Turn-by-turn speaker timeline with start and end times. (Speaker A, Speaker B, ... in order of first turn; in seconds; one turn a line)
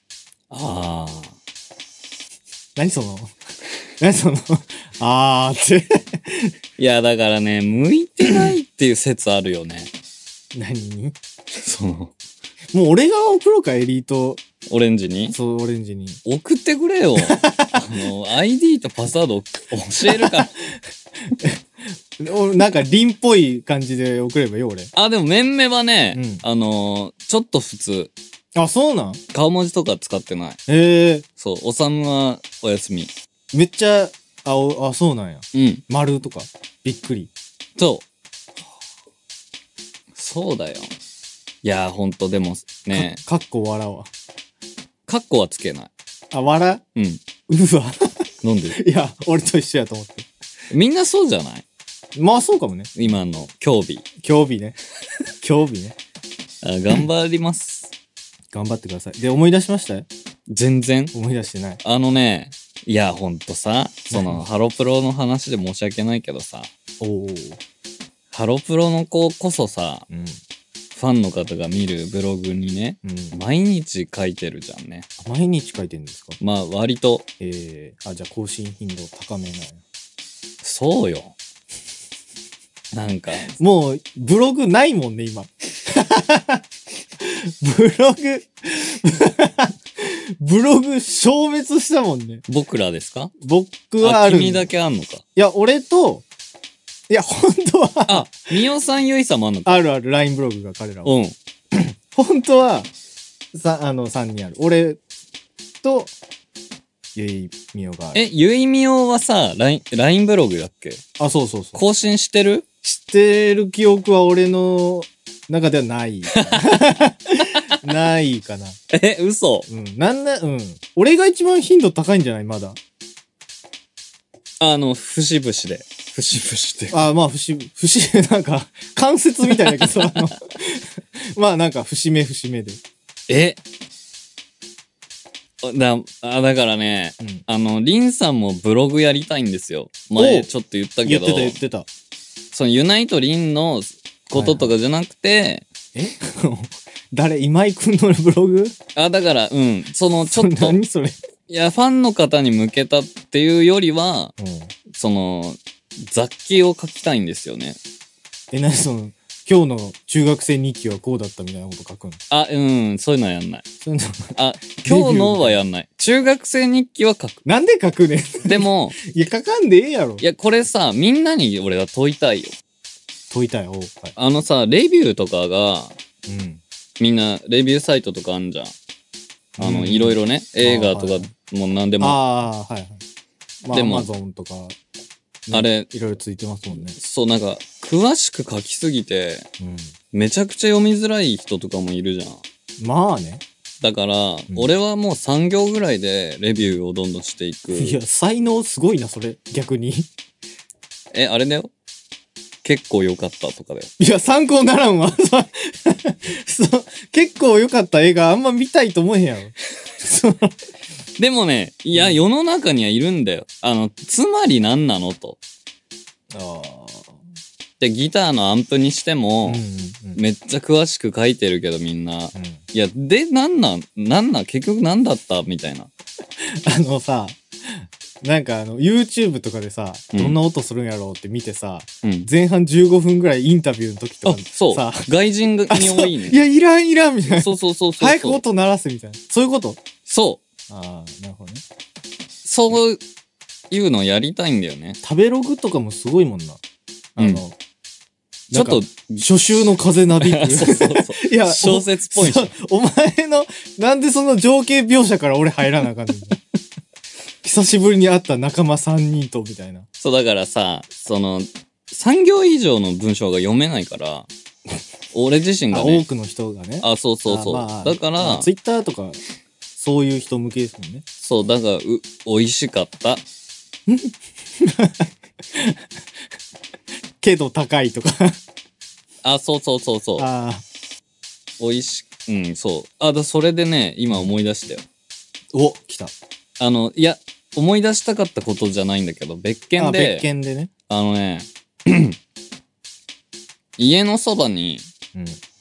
Speaker A: 0.5-1.3
Speaker B: 2.8-3.3
Speaker B: 4.0-6.5
Speaker A: 6.8-9.9
Speaker B: 10.5-11.2
Speaker A: 11.5-12.1
Speaker B: 12.7-14.4
Speaker A: 14.7-15.3
Speaker B: 15.3-16.2
Speaker A: 16.2-20.5
Speaker B: 17.2-18.0
Speaker B: 20.1-24.9
Speaker A: 24.9-28.1
Speaker B: 26.1-26.4
Speaker B: 28.5-29.2
Speaker A: 29.3-30.6
Speaker B: 30.7-31.2
Speaker A: 31.4-33.1
Speaker B: 33.5-37.3
Speaker A: 35.5-35.8
Speaker A: 37.8-38.0
Speaker A: 40.1-40.9
Speaker A: 41.6-43.2
Speaker B: 42.9-44.1
Speaker A: 45.1-45.9
Speaker B: 46.3-46.8
Speaker A: 47.0-47.2
Speaker B: 47.5-50.3
Speaker A: 48.4-48.8
Speaker A: 50.7-51.6
Speaker B: 52.1-53.1
Speaker A: 53.0-54.0
Speaker B: 54.2-54.8
Speaker B: 55.4-55.9
Speaker A: 56.6-57.9
Speaker B: 58.5-60.1
Speaker A: 60.5-61.1
Speaker B: 61.1-61.8
Speaker A: 61.8-66.7
Speaker B: 64.1-64.4
Speaker B: 67.0-67.6
Speaker A: 68.3-70.1
Speaker B: 70.1-70.4
Speaker A: 70.9-75.1
Speaker B: 73.0-73.4
Speaker B: 75.2-76.4
Speaker A: 76.4-77.2
Speaker B: 77.4-79.8
Speaker A: 80.6-81.3
Speaker A: 82.9-83.5
Speaker B: 83.5-86.6
Speaker B: 87.2-92.4
Speaker A: 92.5-93.3
Speaker B: 93.4-94.7
Speaker A: 94.0-95.2
Speaker B: 95.3-96.2
Speaker B: 97.1-98.5
Speaker A: 98.1-99.8
Speaker B: 99.6-101.1
Speaker A: 101.0-101.3
Speaker B: 101.7-102.9
Speaker B: 103.5-105.0
Speaker B: 105.8-106.1
Speaker B: 107.1-108.2
Speaker A: 108.1-111.0
Speaker B: 111.2-111.8
Speaker A: 111.7-112.6
Speaker B: 112.8-118.8
Speaker A: 116.3-116.8
Speaker A: 118.9-119.7
Speaker B: 119.7-122.8
Speaker A: 124.6-127.0
Speaker B: 126.9-132.8
Speaker A: 129.7-130.2
Speaker A: 133.3-133.6
Speaker A: 135.6-141.6
Speaker B: 137.2-137.4
Speaker B: 140.2-140.5
Speaker B: 141.0-141.9
Speaker A: 142.5-145.7
Speaker B: 144.3-144.7
Speaker B: 145.9-148.8
Speaker A: 148.9-150.8
Speaker B: 150.2-151.2
Speaker A: 151.5-154.3
Speaker B: 154.4-154.7
Speaker A: 154.9-157.8
Speaker B: 158.5-162.2
Speaker A: 162.3-163.6
Speaker B: 163.8-165.6
Speaker A: 164.3-167.4
Speaker B: 167.4-170.2
Speaker A: 168.4-169.0
Speaker A: 170.2-172.6
Speaker B: 173.3-174.1
Speaker A: 174.2-176.0
Speaker B: 176.3-176.6
Speaker A: 177.0-178.7
Speaker B: 179.6-181.3
Speaker A: 179.6-182.2
Speaker B: 182.0-183.0
Speaker B: 183.6-184.8
Speaker A: 183.7-184.1
Speaker B: 185.5-187.0
Speaker A: 185.5-185.9
Speaker A: 186.9-189.5
Speaker B: 189.6-189.9
Speaker A: 190.1-192.4
Speaker B: 192.8-193.4
Speaker A: 193.8-198.0
Speaker B: 194.5-194.7
Speaker B: 197.7-200.1
Speaker A: 201.1-201.7
Speaker A: 202.6-203.9
Speaker B: 204.0-210.6
Speaker A: 211.2-215.4
Speaker B: 211.9-212.2
Speaker B: 216.3-217.2
Speaker A: 217.8-219.6
Speaker B: 219.4-220.2
Speaker A: 220.1-225.9
Speaker B: 222.3-222.6
Speaker B: 226.4-235.1
Speaker A: 232.0-232.3
Speaker A: 234.2-236.4
Speaker B: 235.7-239.8
Speaker A: 237.3-238.4
Speaker A: 240.1-240.4
Speaker B: 240.7-241.6
Speaker A: 242.4-243.0
Speaker A: 243.7-245.0
Speaker B: 245.0-246.6
Speaker B: 247.2-247.5
Speaker A: 247.2-247.4
Speaker B: 248.5-256.4
Speaker A: 248.5-249.7
Speaker A: 250.2-252.5
Speaker B: 257.4-259.9
Speaker A: 260.0-264.3
Speaker A: 265.1-266.0
Speaker B: 265.7-269.2
Speaker A: 266.8-268.5
Speaker B: 269.8-271.0
Speaker A: 271.2-273.2
Speaker B: 273.9-275.9
Speaker B: 277.2-278.4
Speaker A: 279.2-280.3
Speaker B: 280.2-280.6
Speaker A: 281.6-284.8
Speaker B: 285.5-286.1
Speaker A: 286.6-290.3
Speaker B: 289.8-290.7
Speaker A: 290.9-292.2
Speaker A: 293.8-294.9
Speaker B: 295.1-295.4